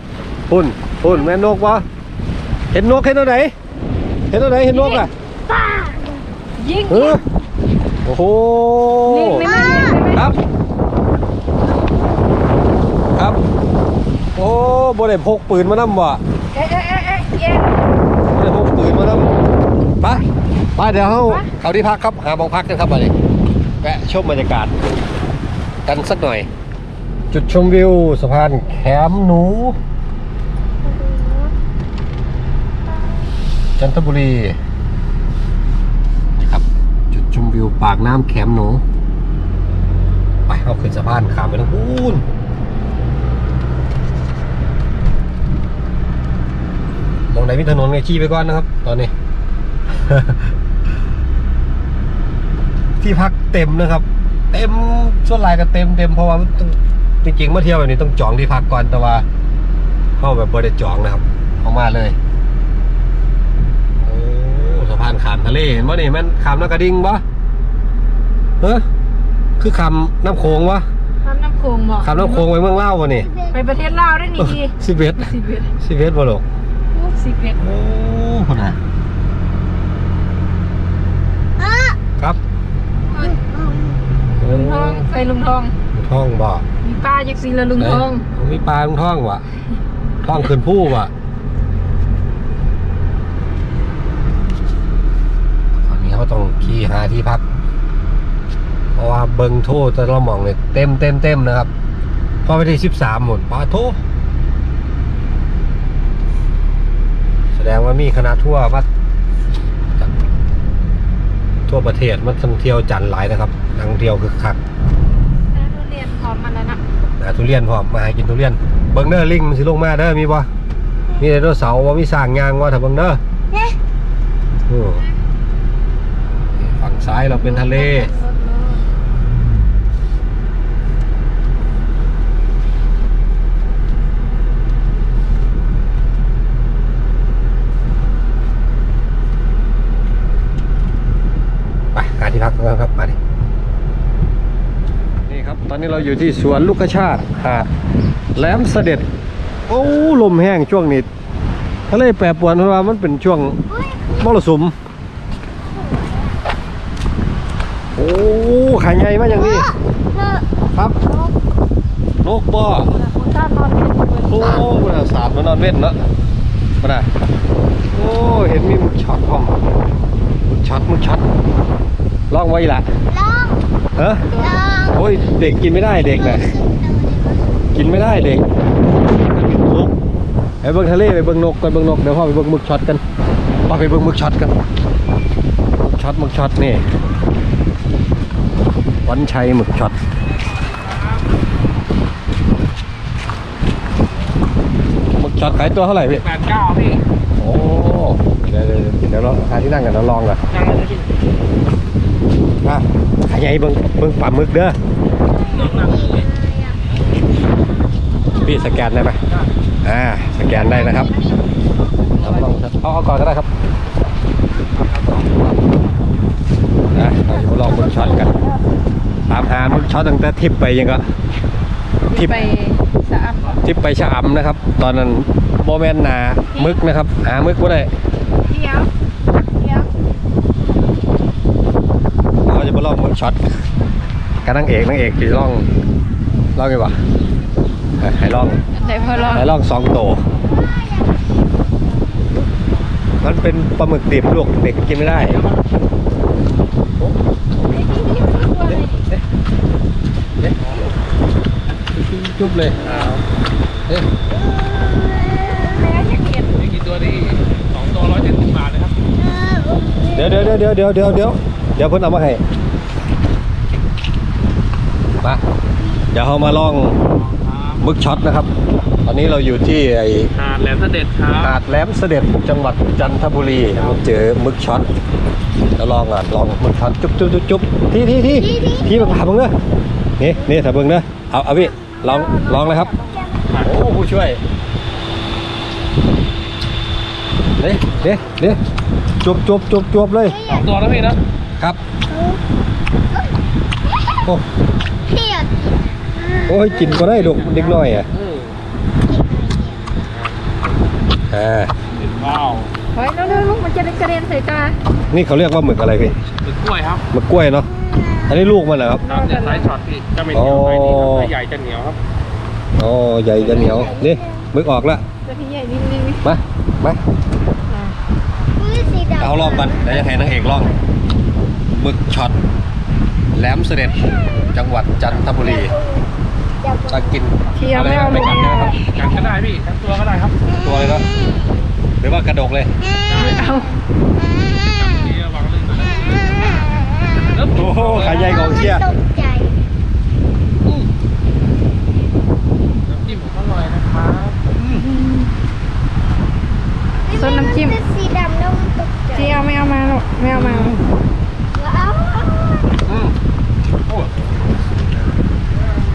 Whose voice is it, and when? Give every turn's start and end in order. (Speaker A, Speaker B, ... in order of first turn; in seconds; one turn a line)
Speaker A: 0.5-1.9
Speaker A: 2.7-3.5
Speaker A: 4.3-5.1
Speaker B: 4.7-5.1
Speaker C: 5.5-6.2
Speaker B: 6.6-7.2
Speaker A: 6.9-7.2
Speaker A: 8.1-9.5
Speaker B: 9.1-10.3
Speaker C: 9.4-10.0
Speaker A: 13.2-13.4
Speaker A: 14.3-16.2
Speaker B: 16.5-17.8
Speaker A: 18.3-19.3
Speaker A: 20.0-23.1
Speaker B: 21.2-21.5
Speaker A: 23.8-24.7
Speaker A: 25.9-26.5
Speaker A: 27.3-29.8
Speaker C: 30.8-31.5
Speaker A: 33.8-34.6
Speaker A: 36.4-38.8
Speaker A: 40.5-42.2
Speaker A: 47.3-49.1
Speaker A: 49.9-50.5
Speaker A: 53.0-59.2
Speaker A: 60.2-62.2
Speaker A: 64.0-67.2
Speaker A: 68.6-68.9
Speaker A: 69.6-70.9
Speaker B: 71.2-72.5
Speaker A: 72.0-73.3
Speaker C: 73.2-73.6
Speaker B: 73.5-75.7
Speaker A: 74.4-76.5
Speaker B: 76.9-77.6
Speaker A: 77.6-78.8
Speaker C: 81.6-82.0
Speaker C: 83.2-84.0
Speaker A: 84.4-85.1
Speaker B: 84.4-85.8
Speaker A: 85.9-86.7
Speaker B: 86.8-88.2
Speaker A: 87.8-89.4
Speaker A: 90.2-91.1
Speaker A: 95.8-97.4
Speaker A: 99.0-101.7
Speaker A: 102.5-104.0
Speaker A: 107.6-108.9
Speaker A: 111.7-114.6
Speaker B: 115.5-116.8
Speaker A: 117.2-120.5
Speaker A: 121.2-123.2
Speaker C: 123.5-123.8
Speaker A: 124.7-125.0
Speaker A: 126.5-128.1
Speaker B: 127.3-128.8
Speaker A: 141.9-143.2
Speaker A: 145.3-147.7
Speaker A: 148.4-149.1
Speaker A: 149.7-151.1
Speaker A: 151.9-153.6
Speaker C: 153.7-154.2
Speaker A: 154.2-154.8
Speaker C: 155.6-156.4
Speaker A: 158.0-159.7
Speaker C: 159.3-160.4
Speaker A: 162.2-162.9
Speaker B: 163.0-164.7
Speaker A: 164.3-166.0
Speaker A: 166.8-167.1
Speaker A: 167.9-169.6
Speaker A: 170.5-171.2
Speaker A: 172.3-172.9
Speaker C: 173.1-173.7
Speaker A: 174.0-174.3
Speaker B: 174.3-174.6
Speaker C: 174.3-178.3
Speaker A: 174.9-176.5
Speaker A: 177.7-178.4
Speaker A: 179.2-179.9
Speaker A: 180.6-183.0
Speaker A: 183.7-184.5
Speaker A: 185.8-186.8
Speaker A: 189.1-190.0
Speaker D: 190.4-191.2
Speaker A: 195.2-196.2
Speaker D: 196.1-197.0
Speaker A: 197.4-200.4
Speaker D: 200.5-201.1
Speaker A: 202.6-204.8
Speaker C: 205.3-206.8
Speaker D: 205.5-206.3
Speaker A: 208.4-209.2
Speaker A: 209.8-211.1
Speaker B: 210.5-211.2
Speaker A: 212.2-213.5
Speaker D: 214.8-215.8
Speaker A: 216.9-218.3
Speaker A: 219.3-221.1
Speaker B: 222.1-223.6
Speaker A: 222.1-222.5
Speaker A: 223.6-227.9
Speaker B: 228.4-228.9
Speaker B: 229.6-229.9
Speaker A: 232.4-233.5
Speaker A: 234.4-235.7
Speaker A: 236.6-237.0
Speaker A: 238.0-238.6
Speaker B: 238.7-239.5
Speaker A: 239.3-240.2
Speaker C: 240.4-241.4
Speaker A: 243.2-245.4
Speaker B: 247.6-249.0
Speaker A: 248.6-249.2
Speaker D: 250.6-250.9
Speaker A: 251.9-252.8
Speaker D: 252.8-253.2
Speaker C: 254.3-255.9
Speaker B: 255.5-256.5
Speaker D: 256.5-258.9
Speaker C: 259.1-260.5
Speaker A: 260.1-262.4
Speaker A: 266.1-267.0
Speaker D: 267.3-267.8
Speaker A: 267.8-268.5
Speaker A: 269.1-270.3
Speaker D: 270.4-271.5
Speaker A: 271.4-274.9
Speaker A: 275.8-279.6
Speaker C: 278.3-279.2
Speaker A: 280.2-282.9
Speaker B: 282.0-283.4
Speaker C: 283.1-283.5
Speaker A: 283.6-284.4
Speaker A: 287.6-288.6
Speaker A: 289.2-290.4
Speaker C: 290.2-290.7
Speaker D: 290.5-291.2
Speaker C: 292.1-292.4
Speaker C: 293.9-294.2
Speaker C: 295.0-296.6
Speaker A: 296.5-298.1
Speaker D: 296.7-298.5
Speaker C: 299.0-300.1
Speaker D: 300.0-300.5
Speaker A: 301.3-301.7
Speaker D: 301.9-302.7
Speaker B: 302.9-304.8
Speaker A: 305.1-306.2
Speaker D: 306.3-307.1
Speaker A: 307.1-307.7
Speaker C: 307.7-308.4
Speaker A: 308.3-309.0
Speaker B: 309.0-309.7
Speaker D: 309.0-312.0
Speaker A: 310.3-311.3
Speaker A: 312.8-315.0
Speaker C: 313.4-314.5
Speaker B: 315.2-316.2
Speaker A: 316.2-317.0
Speaker B: 317.7-317.9
Speaker C: 318.6-320.3
Speaker A: 319.2-320.8
Speaker A: 321.7-322.4
Speaker A: 323.3-325.7
Speaker C: 325.3-327.2
Speaker A: 326.9-328.8
Speaker B: 327.6-328.8
Speaker D: 328.9-330.4
Speaker C: 330.5-331.7
Speaker A: 330.6-331.1
Speaker A: 332.0-332.7
Speaker C: 332.8-335.2
Speaker D: 333.1-333.5
Speaker B: 333.2-333.7
Speaker D: 334.6-336.6
Speaker C: 335.7-339.6
Speaker D: 337.2-338.4
Speaker A: 337.6-338.9
Speaker D: 342.9-344.4
Speaker B: 344.6-345.2
Speaker C: 347.0-349.4
Speaker B: 347.1-347.8
Speaker B: 349.1-350.8
Speaker A: 350.3-350.8
Speaker C: 351.5-352.9
Speaker A: 352.9-353.1